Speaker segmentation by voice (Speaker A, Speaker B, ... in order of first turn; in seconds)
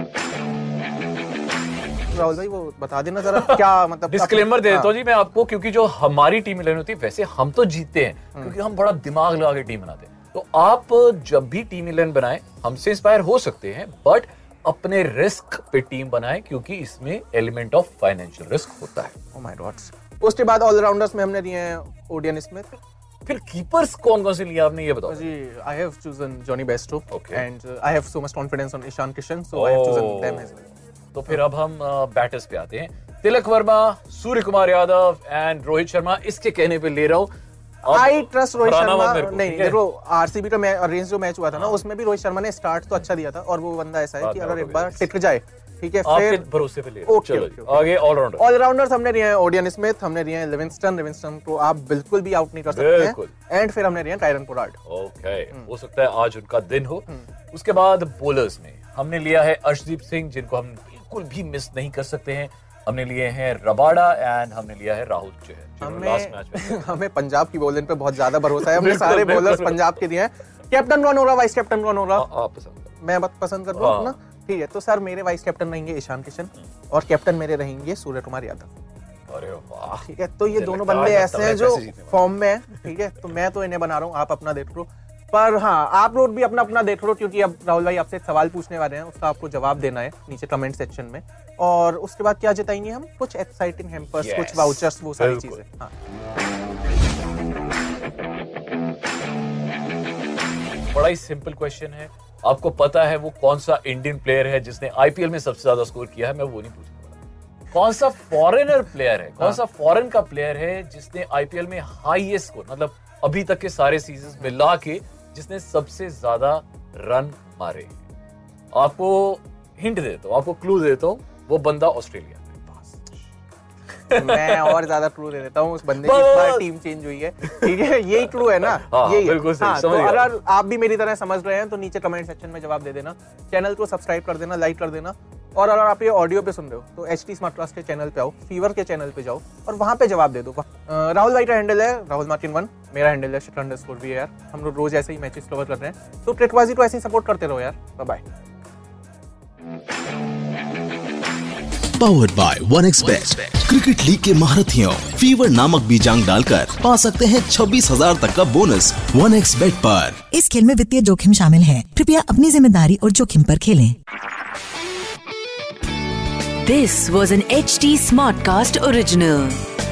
Speaker A: 2.1-4.9, 19.3-22.8, 25.1-30.6, 37.9-46.5, 47.0-54.8, 65.8-72.3, 73.0-78.7, 80.0-95.9, 124.1-148.2
Speaker B: 3.3-19.1, 23.3-25.3, 27.1-27.5, 29.5-30.6, 31.1-37.3, 37.9-39.8, 41.5-41.8, 44.2-45.1, 46.0-48.5, 52.7-53.3, 54.9-66.8, 68.3-69.8, 72.2-72.9, 73.7-74.2, 79.3-82.3, 94.2-95.6, 100.9-107.2, 107.7-117.9, 118.7-123.1, 124.1-124.9, 126.0-126.7, 127.4-130.3
Speaker C: 152.0-160.2
Speaker D: 160.3-164.0
Speaker E: 166.6-169.6